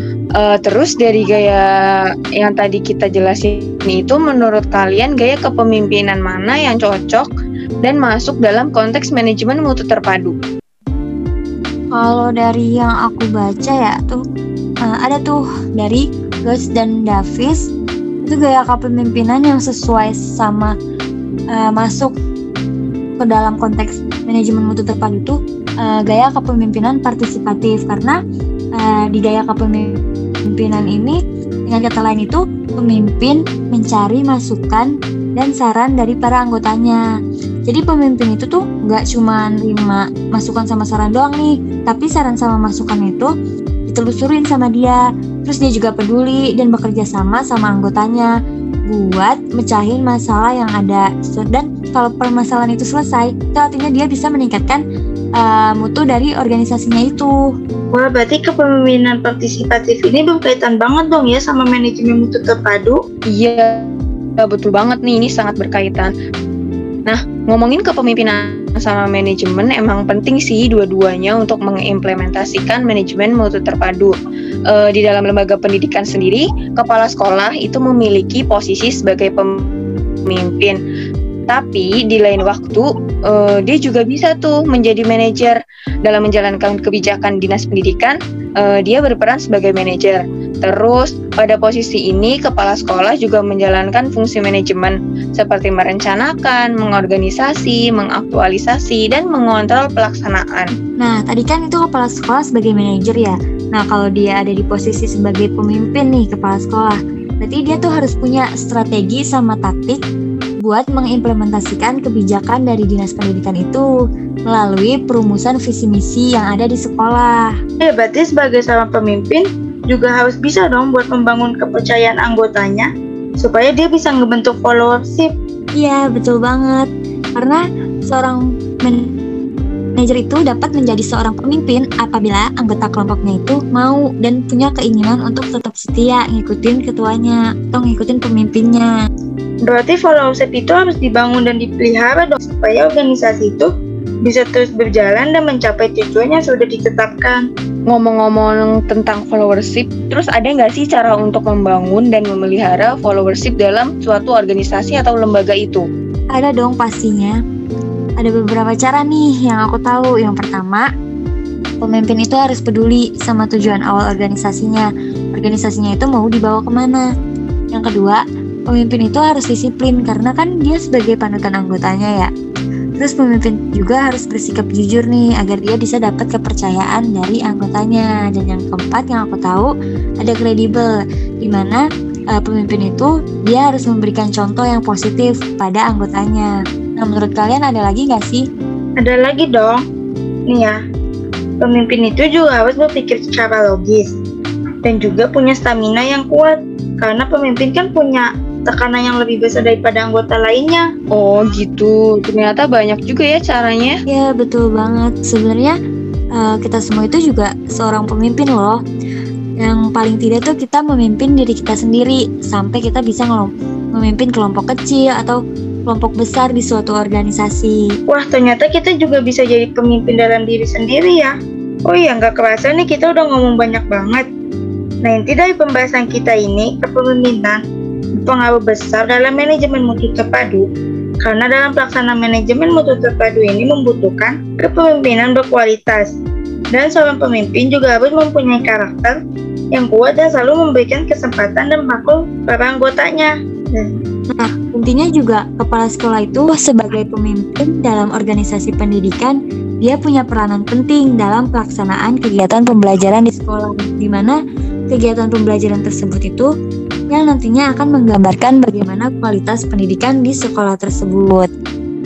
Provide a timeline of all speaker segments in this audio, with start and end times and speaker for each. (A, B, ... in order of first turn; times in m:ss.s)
0:00.4-0:01.6 A
0:02.4-0:07.3 A
0:07.8-0:10.3 A
0:11.9-0:14.2 B
0:14.8-0:17.7 B
0:18.2-0:20.7 B
0:21.5-0:22.2 B
0:23.2-0:28.2 B
0:28.7-0:37.0 B
0:37.6-0:43.3 B
0:43.9-0:48.3 B
0:48.9-0:54.8 B
0:55.4-0:57.3 B
0:57.9-1:03.0 C
1:03.3-1:03.9 A
1:04.4-1:06.1 A
1:07.1-1:14.1 A
1:14.7-1:19.7 A
1:20.3-1:20.8 A
1:21.5-1:40.7 A
1:41.0-1:50.0 B
1:50.6-1:53.9 B
1:54.5-1:57.5 B
1:57.8-2:05.3 C
2:05.8-2:09.2 B
2:10.0-2:18.9 B
2:19.6-2:23.7 C
2:24.2-2:27.4 C
2:27.9-2:35.8 A
2:36.3-2:37.3 B
2:38.2-2:40.8 B
2:41.8-2:47.0 B
2:47.7-2:52.3 B
2:53.0-3:01.8 B
3:02.3-3:08.4 B
3:09.0-3:09.8 C
3:10.5-3:10.8 C
3:11.6-3:14.1 C
3:14.8-3:20.9 C
3:21.1-3:24.0 A
3:24.1-3:25.7 B
3:26.4-3:28.8 B
3:29.6-3:37.8 B
3:38.1-3:41.3 C
3:41.9-3:44.3 C
3:45.0-3:47.6 C
3:48.2-3:50.7 C
3:51.2-3:56.2 C
3:56.7-3:59.2 C
3:59.7-4:04.0 C
4:04.3-4:14.4 B
4:14.9-4:16.5 B
4:17.1-4:21.5 B